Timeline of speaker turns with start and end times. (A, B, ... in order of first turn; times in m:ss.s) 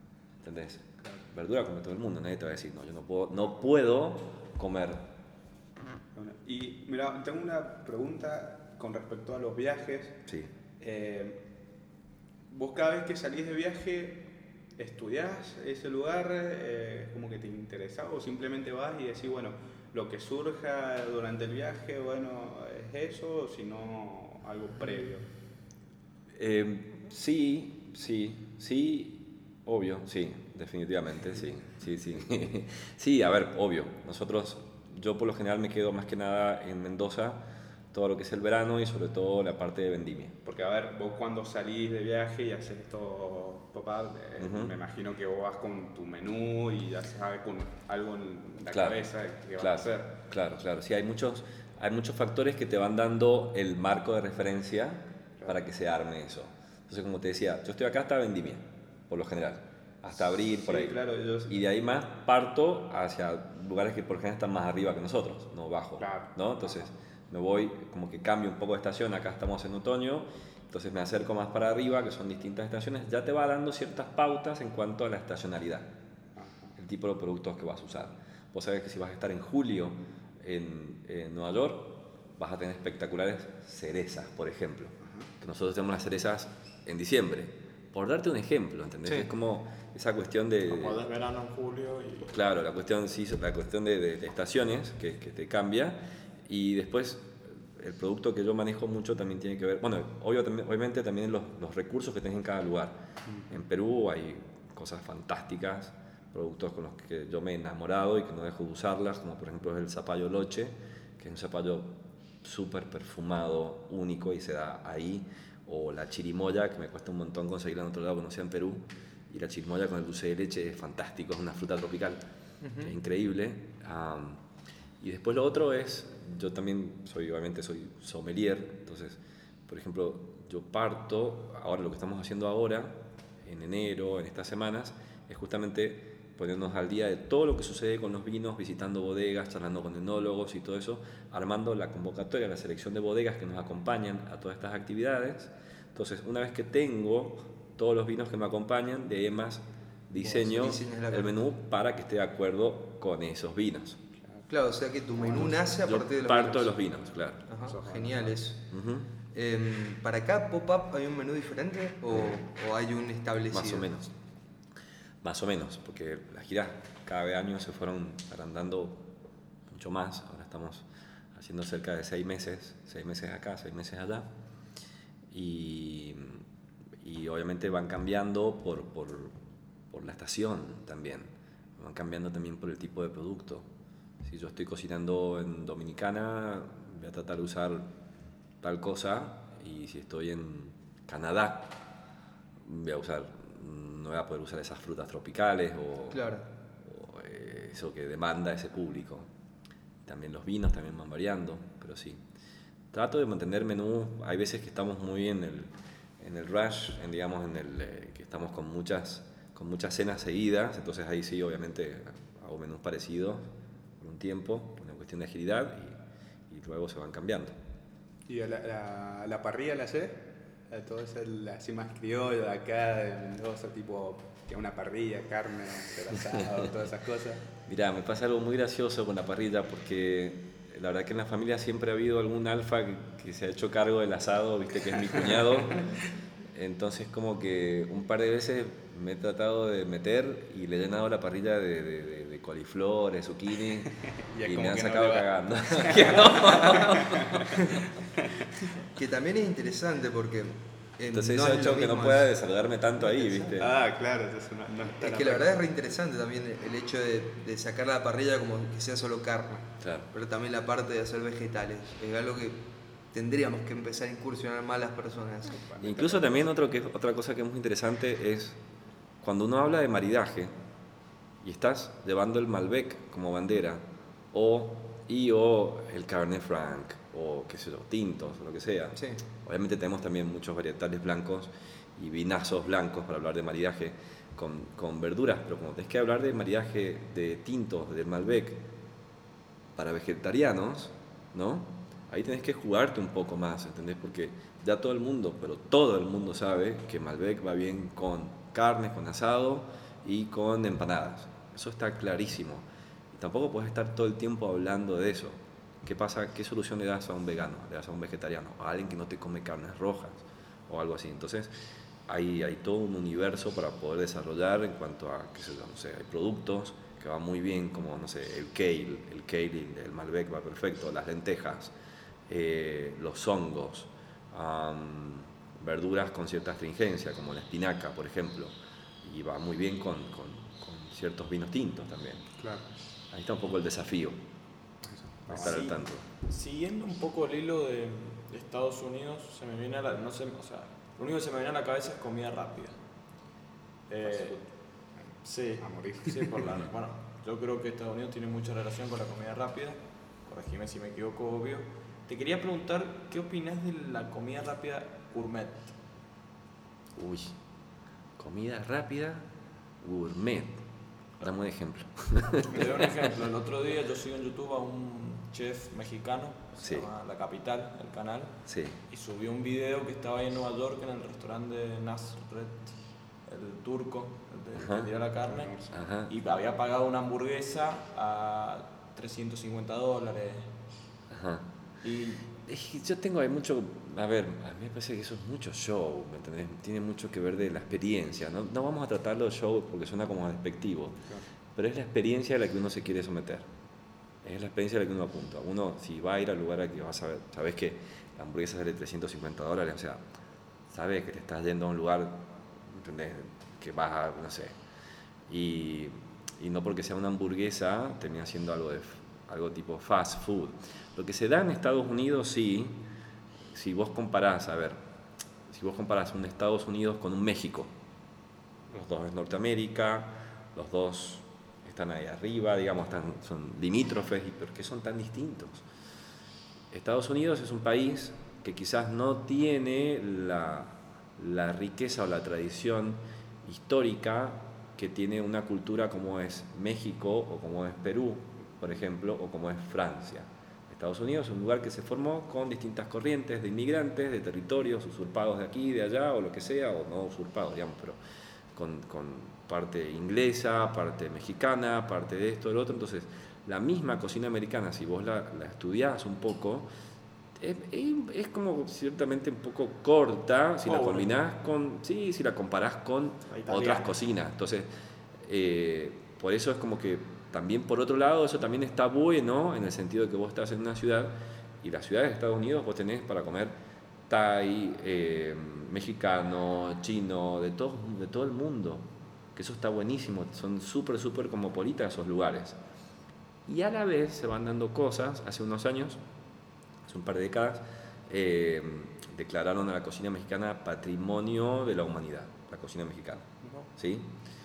0:00.4-0:05.1 A
0:06.1-0:10.2 B
0:10.8-0:11.4 B
0:12.5-0:25.3 B
0:26.3-0:40.4 A
0:40.4-0:50.1 B
0:44.4-0:44.8 A
0:48.7-0:49.0 A
0:49.6-1:15.9 A
1:00.5-1:01.6 B
1:06.0-1:06.3 B
1:16.4-1:16.7 B
1:16.8-1:31.0 A
1:25.0-1:25.3 B
1:30.7-1:32.4 C
1:32.3-2:02.2 A
2:02.6-2:02.9 D
2:02.8-2:04.4 A
2:05.0-2:34.0 A
2:30.2-2:31.4 D
2:34.5-2:36.7 D
2:35.3-2:37.4 A
2:37.5-2:38.6 D
2:37.7-2:38.4 B
2:38.7-2:39.1 A
2:39.3-2:43.9 D
2:42.1-2:42.4 A
2:43.5-2:44.1 A
2:45.2-2:49.1 A
2:49.7-2:54.3 A
2:55.3-2:56.4 A
2:57.0-2:59.4 A
2:59.9-3:03.7 A
3:04.2-3:07.9 A
3:08.6-3:11.8 A
3:12.6-3:19.3 A
3:16.1-3:16.5 D
3:20.0-3:22.2 A
3:22.9-3:37.6 A
3:38.3-3:47.4 B
3:47.7-3:55.9 A
3:55.2-3:55.9 B
3:56.5-4:07.8 A
4:04.2-4:08.5 B
4:09.0-4:12.3 D
4:11.1-4:13.8 A
4:13.1-4:15.5 B
4:15.0-4:25.6 D
4:19.8-4:20.1 A
4:25.5-4:26.4 B
4:25.8-4:28.6 A
4:29.2-4:30.5 A
4:31.4-4:48.6 A
4:39.0-4:39.2 D
4:49.8-5:11.5 A
5:12.1-5:21.7 A
5:22.3-5:32.3 A
5:32.4-5:32.7 B
5:33.1-5:34.2 A
5:34.8-5:35.8 B
5:35.3-5:36.0 A
5:35.3-5:42.8 C
5:43.9-5:44.4 C
5:44.0-5:44.4 B
5:45.2-5:55.8 C
5:45.6-5:46.5 B
5:57.0-5:57.4 A
5:58.2-5:59.3 A
5:59.8-6:00.6 A
6:01.2-6:03.1 A
6:02.4-6:12.7 C
6:06.6-6:06.9 A
6:08.5-6:08.8 A
6:13.3-6:15.6 C
6:14.5-6:14.9 A
6:15.3-6:15.7 B
6:15.7-6:16.1 A
6:16.1-6:20.5 C
6:21.1-6:21.5 A
6:21.8-6:22.3 C
6:22.4-6:31.0 A
6:31.6-6:33.5 A
6:34.2-6:40.0 A
6:40.7-6:44.6 A
6:45.3-6:52.9 A
6:53.5-6:54.8 A
6:55.5-6:57.7 A
6:58.7-7:05.6 A
7:06.7-7:28.0 A
7:28.6-7:36.7 A
7:37.4-7:44.7 A
7:40.6-7:41.1 C
7:43.3-7:43.9 C
7:45.2-7:53.5 A
7:54.1-8:02.6 A
8:03.5-8:06.0 A
8:06.8-8:14.1 A